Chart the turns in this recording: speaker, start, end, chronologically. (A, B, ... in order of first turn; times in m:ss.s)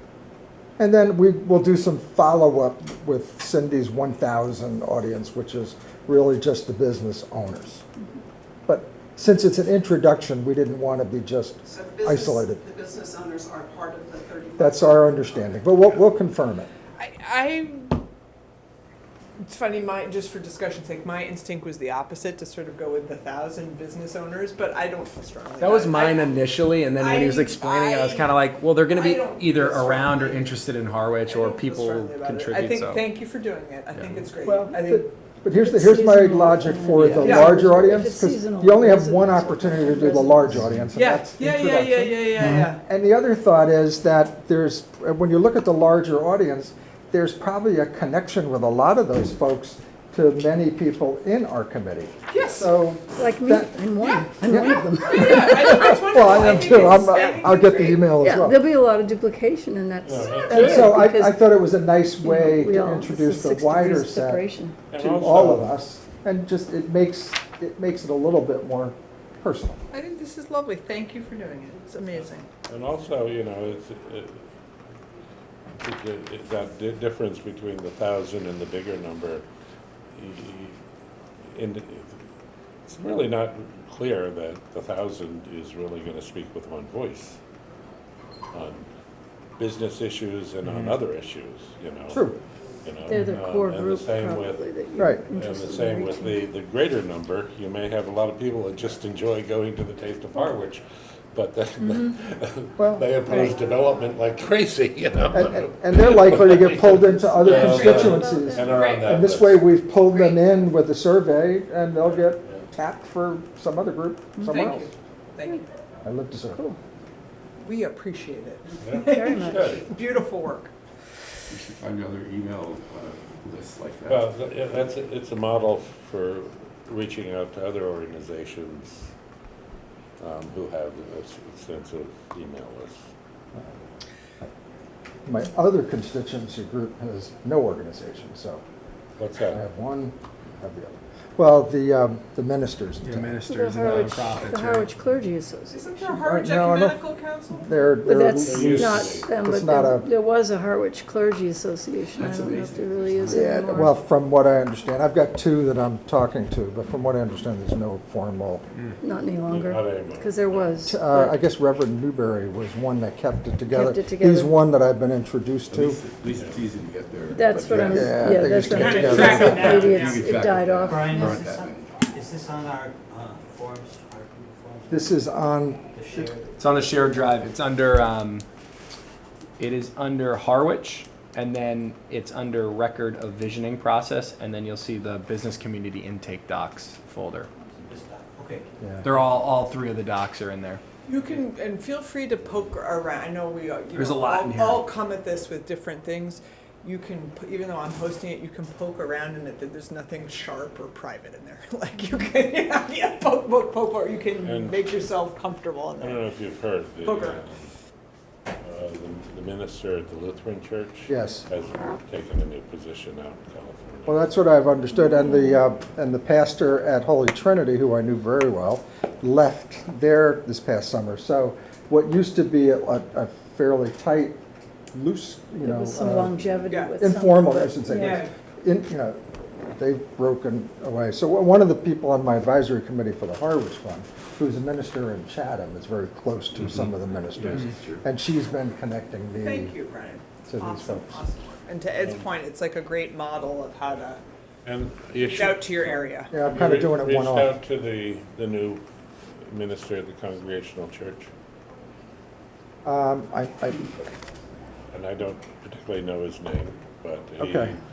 0:00.8-0:07.8 A
0:08.6-0:12.7 A
0:12.6-0:14.6 B
0:14.6-0:16.7 A
0:17.0-0:18.0 C
0:19.4-0:26.4 C
0:25.6-0:33.1 D
0:26.9-0:30.6 C
0:31.2-0:35.1 C
0:33.9-0:34.2 D
0:34.4-0:53.8 A
0:35.5-0:40.6 E
0:36.9-0:37.2 D
0:37.2-0:37.7 C
0:40.9-0:42.8 C
0:42.4-0:42.6 D
0:52.3-0:52.7 C
0:53.2-0:56.0 E
0:54.0-0:54.2 C
0:54.4-0:58.6 A
0:54.9-0:58.2 C
0:58.2-1:01.6 E
1:00.0-1:01.2 F
1:00.5-1:09.8 A
1:02.2-1:04.7 E
1:04.9-1:05.7 F
1:09.9-1:12.5 C
1:12.7-1:14.4 F
1:15.8-1:19.4 F
1:20.1-1:20.8 F
1:21.5-1:22.2 F
1:22.8-1:27.4 F
1:28.5-1:28.9 F
1:29.6-1:32.2 F
1:32.1-1:32.4 A
1:32.8-1:34.7 F
1:33.1-1:36.4 E
1:35.0-1:35.2 A
1:35.3-1:40.8 F
1:41.3-1:49.7 F
1:42.8-1:43.1 A
1:45.3-1:54.9 A
1:47.4-1:48.9 E
1:48.7-1:49.0 C
1:54.4-1:54.6 E
1:54.4-1:55.7 C
1:56.0-1:56.6 A
1:56.5-1:56.8 E
1:57.6-2:00.7 C
1:58.8-1:59.9 F
1:59.0-1:59.8 E
2:01.5-2:04.2 G
2:04.1-2:09.1 F
2:10.2-2:13.0 F
2:15.2-2:18.6 A
2:19.2-2:19.6 F
2:19.5-2:23.4 A
2:23.0-2:24.9 D
2:23.4-2:25.8 E
2:25.7-2:27.8 C
2:26.0-2:30.1 A
2:28.0-2:34.0 E
2:28.4-2:29.3 F
2:32.1-2:33.9 G
2:33.3-2:38.6 A
2:39.0-2:41.4 E
2:39.4-2:40.6 F
2:40.8-2:46.0 A
2:43.7-2:44.6 E
2:45.7-2:51.9 G
2:46.3-2:46.6 F
2:47.3-2:51.4 E
2:47.7-2:49.9 A
2:48.7-2:50.3 C
2:50.9-2:55.1 H
2:54.9-2:56.3 A
2:55.9-2:56.5 H
2:56.6-2:58.4 D
2:59.6-3:07.5 D
3:07.8-3:08.7 H
3:08.8-3:09.1 A
3:09.0-3:10.8 D
3:11.1-3:26.2 C
3:13.9-3:14.9 D
3:24.4-3:24.8 F
3:26.0-3:27.7 F
3:27.0-3:27.4 C
3:28.6-3:34.3 F
3:31.1-3:31.4 A
3:34.1-3:44.4 A
3:44.9-3:46.4 A
3:45.6-3:48.2 E
3:46.7-3:47.0 C
3:47.0-3:59.7 A
3:47.9-3:48.3 C
3:59.4-4:04.2 C
4:00.4-4:01.2 A
4:02.0-4:02.3 F
4:04.6-4:08.8 F
4:05.3-4:06.3 C
4:06.3-4:07.5 A
4:09.5-4:11.3 F
4:12.8-4:13.9 A
4:14.9-4:17.8 F
4:17.4-4:17.7 A